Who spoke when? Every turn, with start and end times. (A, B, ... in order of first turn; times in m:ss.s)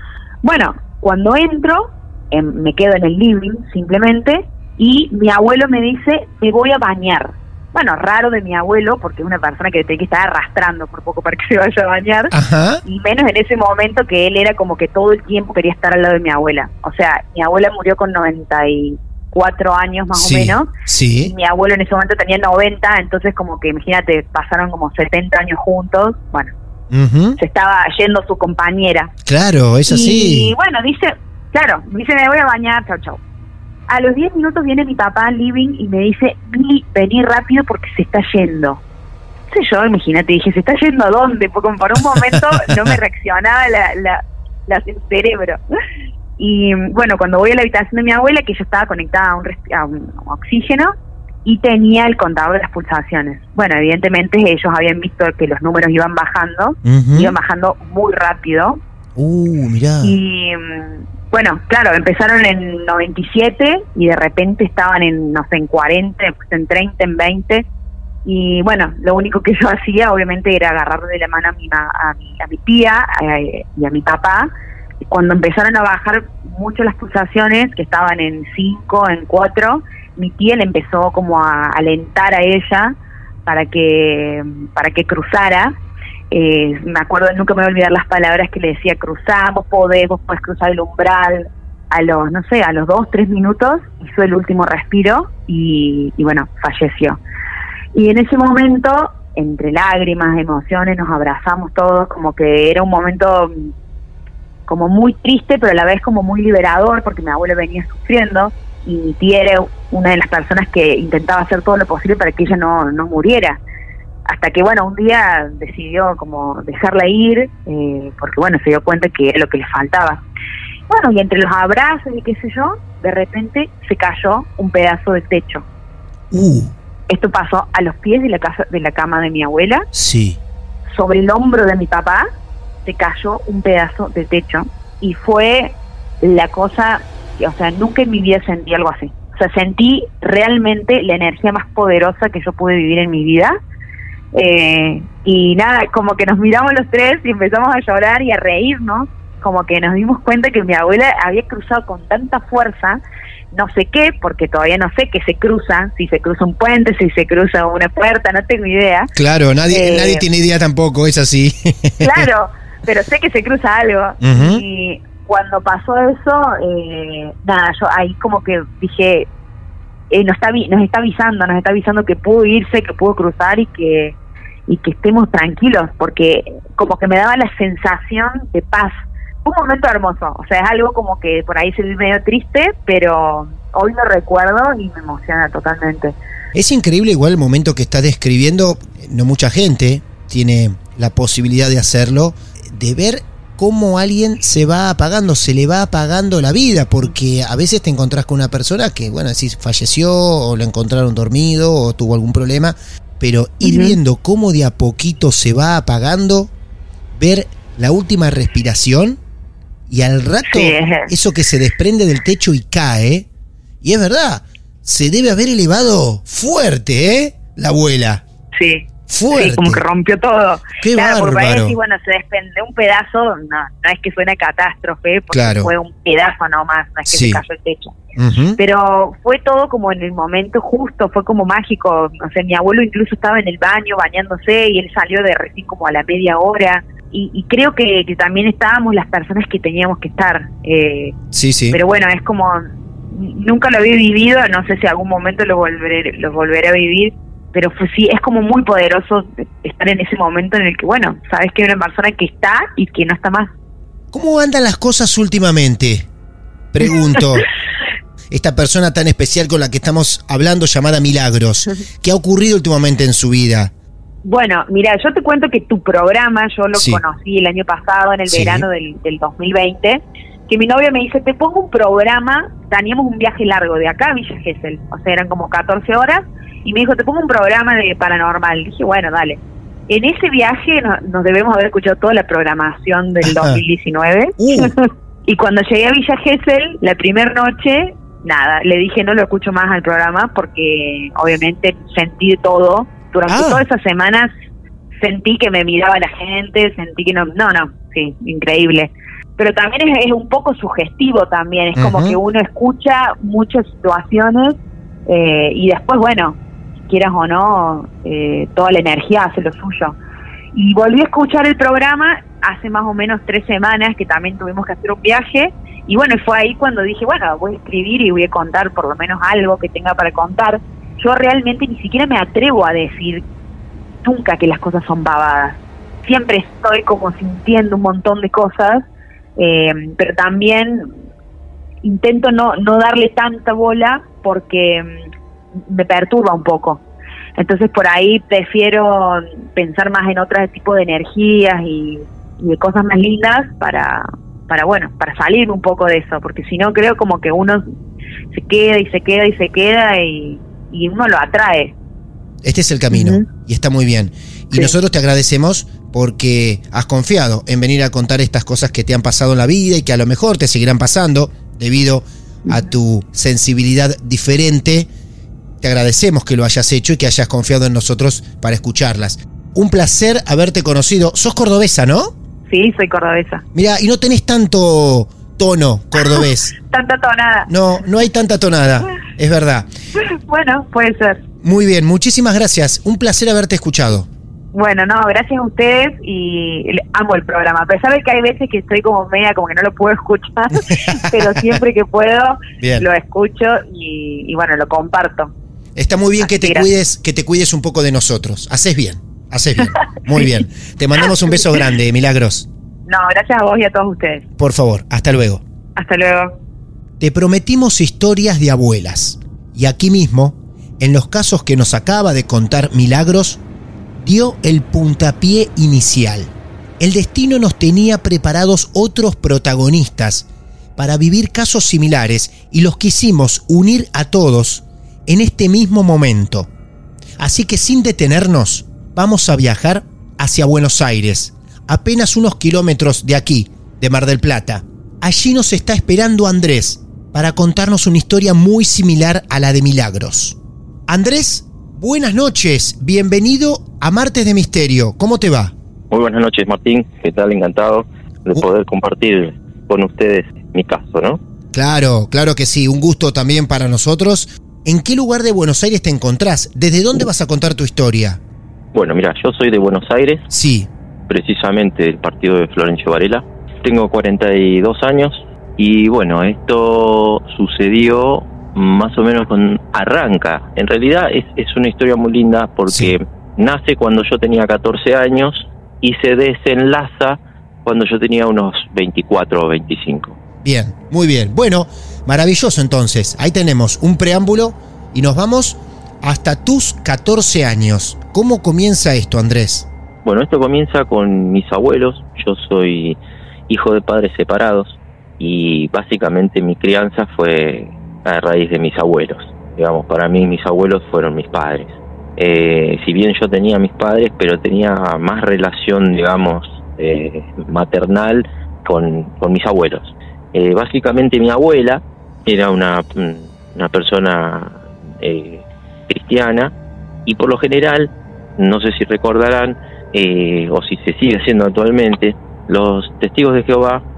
0:00.4-0:12.3 A
0:12.3-0:12.8 B
0:12.8-0:20.7 A
0:20.1-0:21.3 B
0:21.2-0:26.5 A
0:26.9-0:27.4 B
0:27.4-0:29.1 A
0:29.3-0:30.5 B
0:29.9-0:33.2 A
0:33.9-0:38.8 A
0:39.5-0:45.6 A
0:46.4-0:50.9 A
0:51.4-0:58.8 A
0:56.8-0:57.4 B
0:59.2-1:00.2 B
1:00.0-1:07.6 A
1:08.2-1:14.5 A
1:15.0-1:25.7 A
1:26.3-1:37.2 A
1:37.9-1:43.7 A
1:44.7-1:53.6 A
1:54.3-2:00.2 A
2:00.9-2:05.6 A
2:06.3-2:06.7 B
2:07.1-2:09.9 A
2:09.9-2:10.4 B
2:10.9-2:12.2 A
2:12.8-2:23.5 A
2:24.3-2:33.0 A
2:33.5-2:39.1 A
2:39.2-2:42.3 B
2:39.7-2:40.2 A
2:42.0-2:49.3 A
2:44.2-2:44.6 B
2:50.1-2:54.2 A
2:54.7-3:06.2 A
3:06.5-3:26.5 B
3:23.6-3:24.0 A
3:27.1-3:29.2 B
3:29.9-3:33.3 B
3:30.5-3:31.1 A
3:33.8-3:38.2 B
3:38.5-3:47.9 A
3:39.1-3:39.8 B
3:40.8-3:41.7 B
3:45.3-3:45.7 B
3:47.1-3:47.4 B
3:48.2-3:48.6 B
3:48.6-4:01.1 A
4:01.3-4:01.8 B
4:01.7-4:13.5 A
4:14.1-4:16.1 B
4:16.7-4:17.5 B
4:16.9-4:17.2 A
4:18.3-4:23.7 B
4:24.2-4:54.3 A
4:26.7-4:27.0 B
4:28.3-4:28.6 B
4:43.2-4:43.6 B
4:44.4-4:44.7 B
4:53.3-4:53.6 B
4:55.0-5:06.4 A
5:01.8-5:02.2 B
5:06.9-5:10.0 A
5:10.5-5:23.2 A
5:24.0-5:28.8 A
5:29.4-5:30.9 A
5:31.8-5:35.0 A
5:35.6-5:36.8 A
5:37.4-5:47.6 A
5:48.3-5:51.7 A
5:52.4-6:04.9 B
5:52.9-5:53.2 A
6:02.4-6:02.7 A
6:05.6-6:12.1 B
6:12.5-6:13.4 A
6:13.5-6:16.5 B
6:16.0-6:17.5 A
6:17.5-6:19.7 B
6:20.0-6:21.2 A
6:21.4-6:24.1 B
6:24.5-6:35.3 A
6:30.9-6:31.2 B
6:32.6-6:32.9 B
6:35.8-6:42.5 B
6:36.2-6:36.7 A
6:41.0-6:41.5 A
6:42.8-6:44.2 A
6:44.4-6:45.4 B
6:45.8-6:46.3 A
6:47.0-6:53.4 B
6:54.0-7:06.5 B
7:07.2-7:20.4 B
7:20.9-7:25.5 B
7:25.9-7:31.2 C
7:31.5-7:38.2 B
7:38.7-7:40.3 C
7:40.3-7:40.7 B
7:41.1-8:00.2 C
7:52.7-7:52.9 B
8:00.4-8:09.6 B
8:10.0-8:36.5 C
8:37.0-8:43.8 C